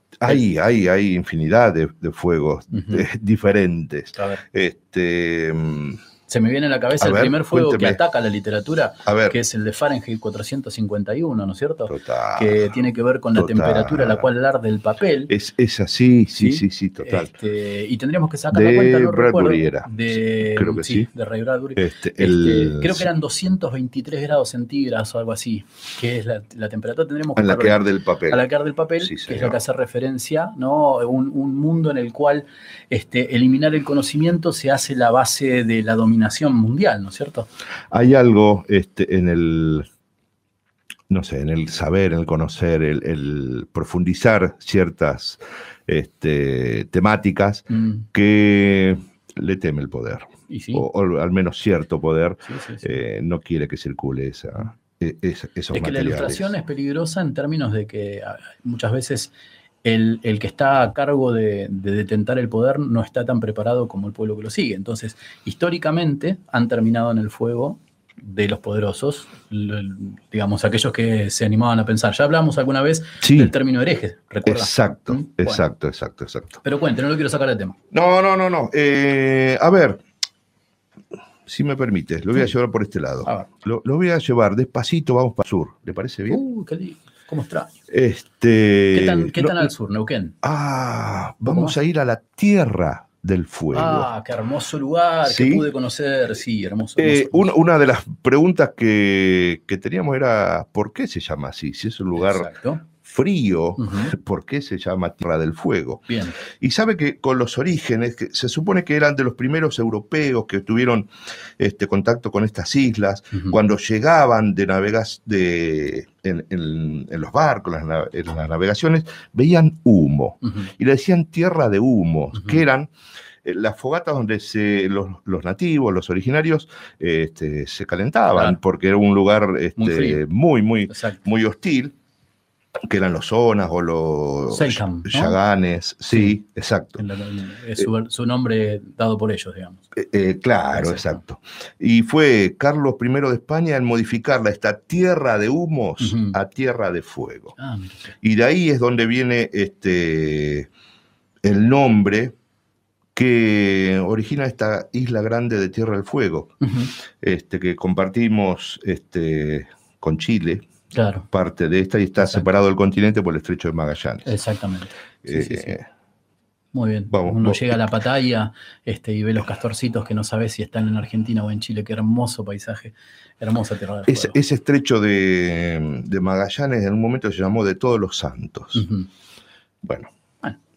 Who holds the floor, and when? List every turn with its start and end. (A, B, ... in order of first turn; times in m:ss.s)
0:00.2-0:06.0 A
0:02.7-0:03.1 B
0:04.2-0:04.4 B
0:06.3-0:15.3 B
0:07.0-0:08.0 A
0:09.1-0:09.4 A
0:11.9-0:12.7 A
0:13.4-0:14.3 A
0:15.3-0:17.3 A
0:16.4-0:37.5 B
0:18.5-0:21.1 A
0:21.8-0:23.1 A
0:27.4-0:28.5 A
0:29.0-0:29.6 A
0:37.9-0:39.9 A
0:41.1-0:56.5 A
0:47.7-0:48.1 B
0:50.5-0:50.9 B
0:52.4-0:53.0 B
0:55.7-0:59.3 B
0:59.8-1:15.6 B
1:13.2-1:13.5 A
1:14.4-1:16.6 A
1:16.6-1:17.8 B
1:17.9-1:20.0 A
1:21.5-1:26.4 A
1:26.3-1:27.7 B
1:27.9-1:29.7 A
1:28.9-1:30.4 B
1:30.4-1:34.1 A
1:31.4-1:31.8 B
1:33.7-1:37.5 B
1:35.2-1:35.7 A
1:37.0-2:02.9 A
1:42.2-1:42.8 B
1:43.8-1:44.2 B
1:46.1-1:46.4 B
2:00.4-2:00.7 B
2:02.3-2:02.6 B
2:03.4-2:11.9 A
2:08.3-2:08.6 B
2:09.8-2:10.2 B
2:10.9-2:11.2 B
2:12.9-2:17.0 A
2:14.5-2:15.4 B
2:16.1-2:16.4 B
2:17.0-2:19.8 B
2:20.0-2:27.6 A
2:20.7-2:21.2 B
2:26.0-2:26.4 B
2:27.6-2:28.1 B
2:28.2-2:30.7 A
2:31.4-2:32.4 A
2:33.2-2:36.6 A
2:36.6-2:36.9 B
2:37.2-2:40.7 A
2:40.9-2:41.3 B
2:41.3-2:44.3 A
2:42.2-2:42.5 B
2:44.2-2:45.8 B
2:45.2-2:45.9 A
2:46.7-2:54.4 B
2:47.1-2:47.8 A
2:54.1-2:58.9 A
2:58.7-2:59.1 B
2:59.8-3:00.1 A